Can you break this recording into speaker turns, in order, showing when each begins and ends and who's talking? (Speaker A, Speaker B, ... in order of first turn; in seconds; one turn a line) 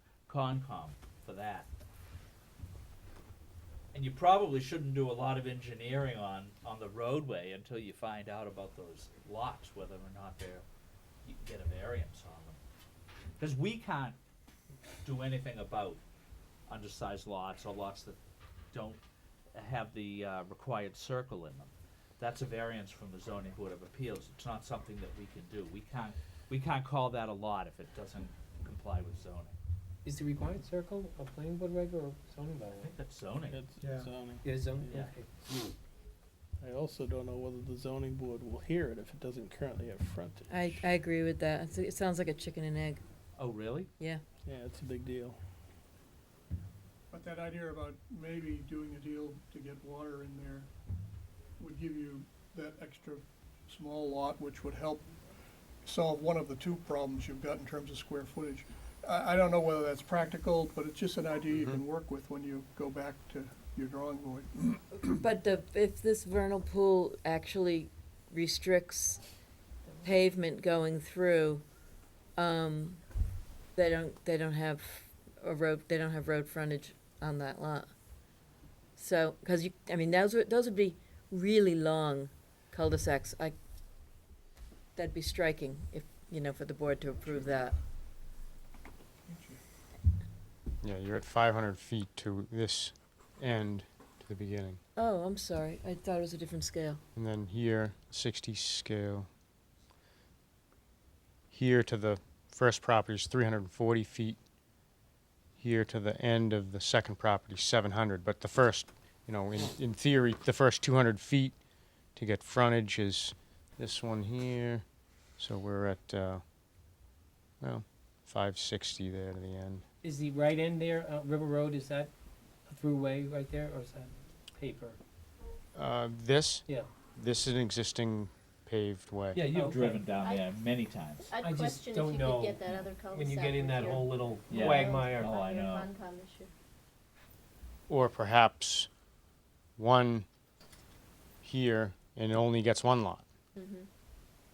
Speaker A: 0.3-1.7
Speaker A: 3.9-10.6
Speaker A: 11.2-12.6
Speaker A: 13.4-14.2
Speaker A: 15.0-16.0
Speaker A: 16.7-18.2
Speaker A: 18.7-19.0
Speaker A: 19.5-29.5
Speaker B: 30.0-32.9
Speaker A: 32.7-33.6
Speaker C: 33.5-35.1
Speaker B: 34.4-35.3
Speaker A: 34.9-35.6
Speaker C: 36.6-40.9
Speaker D: 40.5-43.0
Speaker A: 43.4-43.9
Speaker C: 44.5-45.4
Speaker E: 47.1-50.7
Speaker E: 51.6-55.1
Speaker E: 55.8-65.1
Speaker D: 64.9-69.3
Speaker D: 70.0-71.7
Speaker D: 72.3-73.0
Speaker D: 73.8-77.9
Speaker D: 79.0-83.6
Speaker D: 85.0-87.8
Speaker E: 89.3-89.6
Speaker F: 90.8-94.8
Speaker D: 95.0-97.0
Speaker F: 97.2-99.3
Speaker F: 101.5-104.4
Speaker F: 105.6-111.6
Speaker F: 112.1-114.8
Speaker F: 115.4-116.4
Speaker F: 117.6-119.8
Speaker B: 120.0-122.1
Speaker B: 122.7-125.0
Speaker F: 125.7-129.4
Speaker A: 129.3-131.2
Speaker B: 129.4-130.1
Speaker G: 130.2-130.4
Speaker G: 131.3-136.5
Speaker B: 131.4-135.3
Speaker A: 134.5-135.9
Speaker F: 137.9-138.9
Speaker F: 139.8-140.3
Speaker F: 141.4-143.2
Speaker G: 143.6-143.9